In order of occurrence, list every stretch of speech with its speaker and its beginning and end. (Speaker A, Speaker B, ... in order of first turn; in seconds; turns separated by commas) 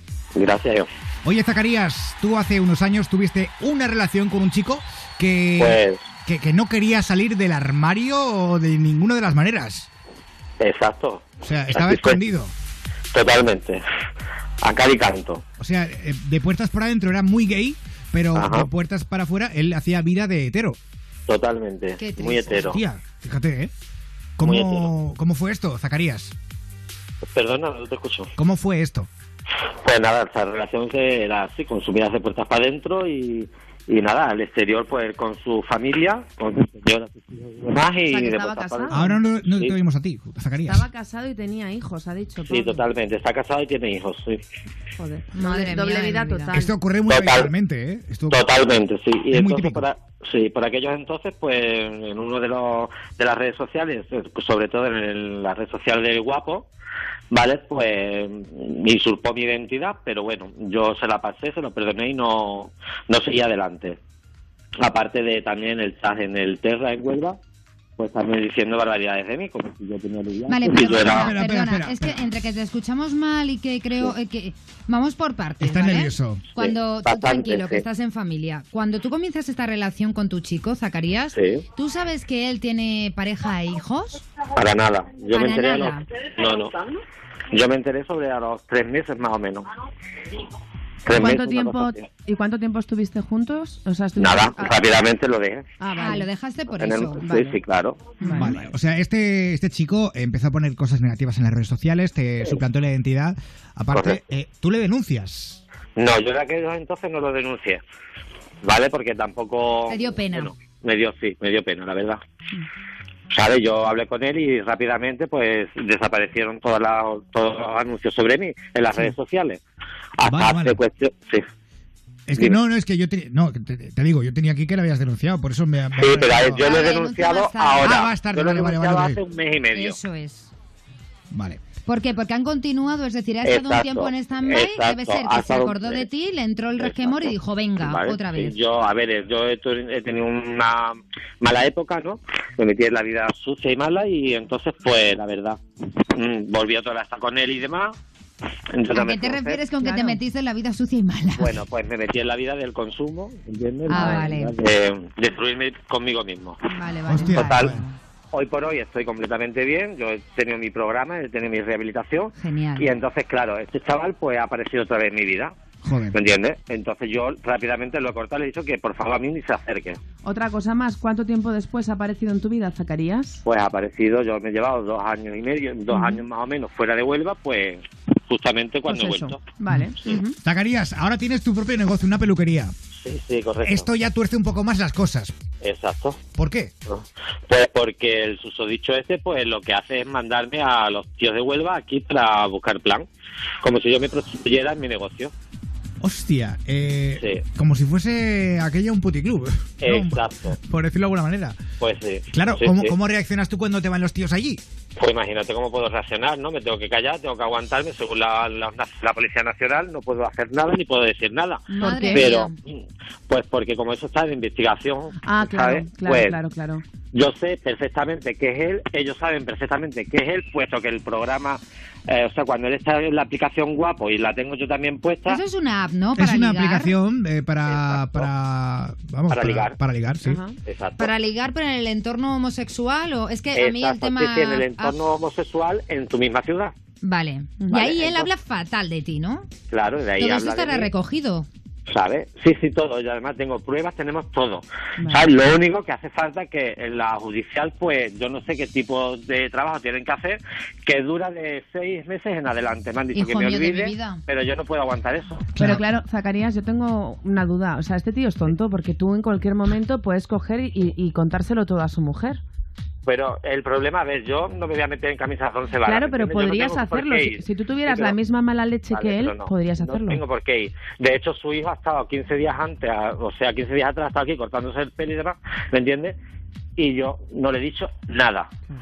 Speaker A: 0.3-0.9, Speaker B: 1.2-9.9, Speaker A: 5.6-6.0, Speaker A: 10.6-12.2, Speaker B: 11.4-12.5, Speaker A: 13.1-13.8, Speaker A: 14.6-15.4, Speaker B: 15.6-20.8, Speaker A: 18.3-18.7, Speaker A: 21.3-22.8, Speaker C: 22.0-22.7, Speaker B: 22.6-23.7, Speaker B: 24.4-26.4, Speaker A: 24.4-24.9, Speaker A: 27.4-28.3, Speaker B: 28.4-29.1, Speaker A: 29.8-39.8, Speaker D: 38.0-39.2, Speaker B: 38.9-40.9, Speaker D: 40.7-42.9, Speaker A: 42.4-44.4, Speaker D: 45.0-46.7, Speaker C: 45.3-46.6, Speaker B: 46.5-48.5, Speaker A: 47.1-47.5, Speaker A: 48.3-56.7, Speaker B: 49.3-49.9, Speaker A: 57.3-64.0, Speaker A: 64.8-67.4, Speaker A: 68.0-71.3, Speaker C: 70.5-84.2, Speaker B: 71.0-72.2, Speaker B: 75.6-76.4, Speaker A: 76.6-77.8, Speaker A: 81.3-81.6, Speaker A: 84.5-86.8, Speaker C: 85.3-86.1, Speaker A: 87.5-89.7, Speaker A: 91.0-92.1, Speaker D: 91.1-94.8, Speaker A: 94.2-95.7, Speaker D: 95.8-96.3, Speaker C: 96.0-97.2, Speaker A: 96.8-98.0, Speaker D: 97.2-97.6, Speaker D: 98.2-98.6, Speaker B: 98.3-105.6, Speaker A: 103.9-104.2, Speaker A: 106.0-107.8, Speaker A: 108.6-112.2, Speaker C: 109.9-110.5, Speaker A: 113.3-119.6, Speaker A: 120.2-121.4, Speaker B: 120.2-120.8, Speaker B: 122.3-126.7, Speaker A: 126.0-130.0, Speaker C: 126.5-128.0, Speaker B: 127.8-129.2, Speaker C: 129.7-130.5, Speaker B: 131.3-131.6, Speaker C: 131.8-138.6, Speaker A: 133.4-136.1, Speaker A: 136.8-145.6, Speaker A: 146.1-148.0, Speaker A: 148.7-149.6, Speaker C: 148.9-151.6, Speaker D: 149.8-150.2, Speaker A: 151.4-156.6, Speaker C: 153.9-154.5, Speaker D: 153.9-154.3, Speaker D: 156.7-157.3, Speaker C: 156.8-157.7, Speaker B: 157.1-157.8, Speaker A: 157.3-157.8, Speaker A: 158.3-165.5, Speaker C: 162.4-162.9, Speaker B: 165.8-166.2, Speaker A: 166.1-170.0, Speaker D: 170.2-173.4, Speaker A: 173.4-179.4, Speaker D: 175.9-176.2, Speaker D: 178.9-180.3, Speaker B: 179.7-182.7, Speaker A: 183.0-183.9, Speaker B: 183.6-185.3, Speaker A: 185.6-186.2, Speaker B: 186.4-186.7, Speaker A: 186.9-193.1, Speaker A: 193.6-195.3, Speaker B: 196.0-201.6, Speaker A: 197.2-197.4, Speaker A: 199.8-200.6, Speaker A: 201.8-202.9, Speaker B: 202.3-204.6, Speaker A: 205.0-216.4, Speaker C: 211.7-212.6, Speaker D: 211.8-212.3, Speaker D: 215.2-216.8, Speaker A: 217.1-225.4, Speaker C: 225.3-226.9, Speaker B: 226.2-230.4, Speaker A: 227.7-228.3, Speaker A: 229.3-229.8, Speaker D: 230.2-230.6, Speaker A: 230.7-231.1, Speaker C: 231.0-235.0, Speaker A: 233.5-236.8, Speaker C: 237.0-239.5, Speaker D: 237.6-237.9, Speaker A: 237.7-238.3, Speaker A: 239.7-240.9, Speaker C: 240.2-241.5, Speaker A: 241.9-255.5, Speaker D: 245.0-245.3, Speaker C: 253.1-254.2, Speaker B: 255.6-255.8, Speaker D: 255.6-262.4, Speaker A: 263.1-268.1, Speaker D: 265.8-270.2, Speaker A: 268.9-276.2, Speaker A: 276.8-278.5